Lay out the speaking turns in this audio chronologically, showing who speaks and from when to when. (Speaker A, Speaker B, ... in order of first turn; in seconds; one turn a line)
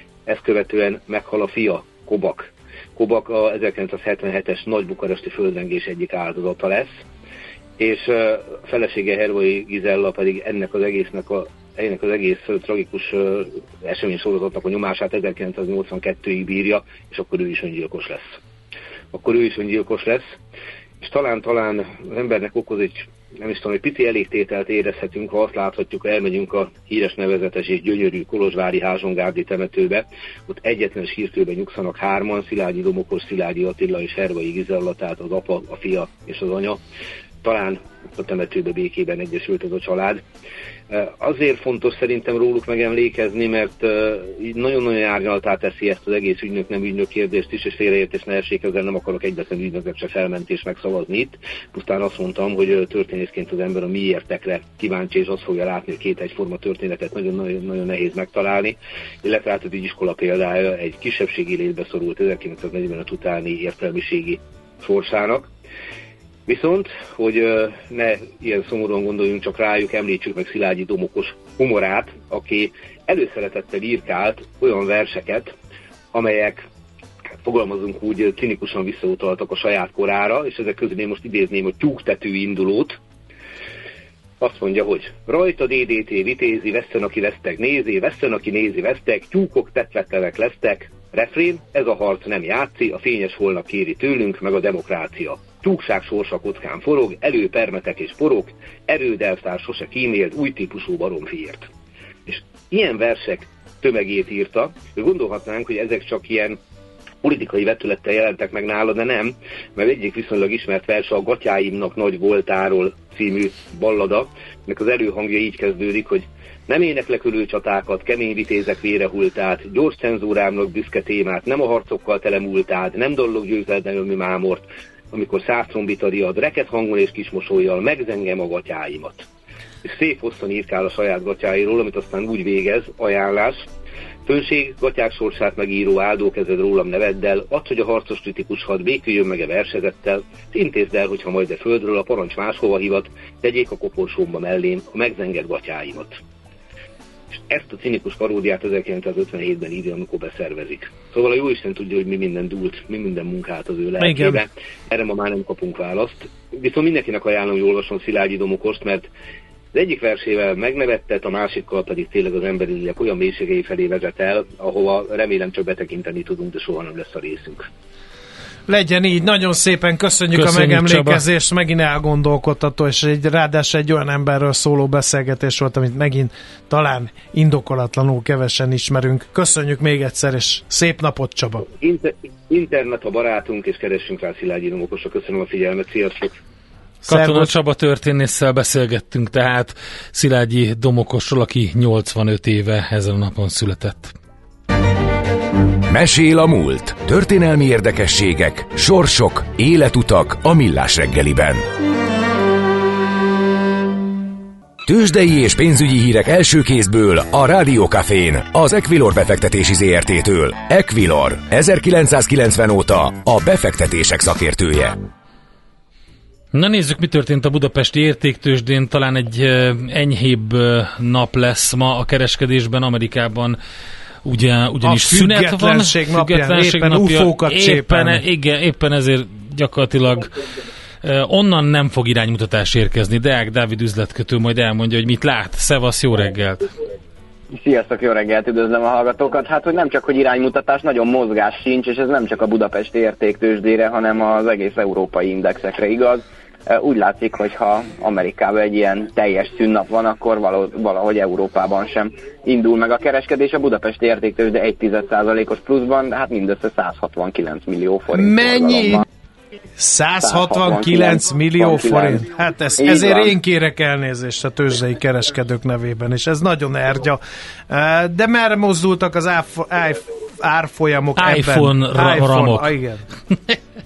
Speaker A: 0.2-7.0
Speaker A: 7.8-18.4
Speaker A: 19.1-20.4
Speaker A: 21.0-36.8
Speaker A: 37.4-40.2
Speaker A: 40.9-65.5
Speaker A: 66.5-75.5
Speaker A: 76.1-76.6
Speaker A: 77.4-83.0
Speaker A: 84.4-101.7
Speaker A: 102.3-106.6
Speaker A: 107.2-129.3
Speaker A: 129.8-133.7
Speaker A: 134.2-146.2
Speaker A: 147.5-159.1
Speaker B: 154.0-154.4
Speaker A: 159.7-167.7
Speaker B: 168.7-181.7
Speaker C: 170.3-171.2
Speaker A: 181.8-186.4
Speaker B: 187.0-187.5
Speaker C: 187.0-194.1
Speaker D: 195.9-201.6
Speaker D: 204.8-214.9
Speaker C: 216.5-223.6
Speaker C: 224.2-230.3
Speaker B: 224.8-228.2
Speaker C: 231.0-236.7
Speaker E: 237.5-259.0
Speaker B: 258.1-259.0
Speaker B: 259.8-273.1
Speaker E: 260.2-262.2
Speaker E: 262.8-263.3
Speaker C: 271.2-272.7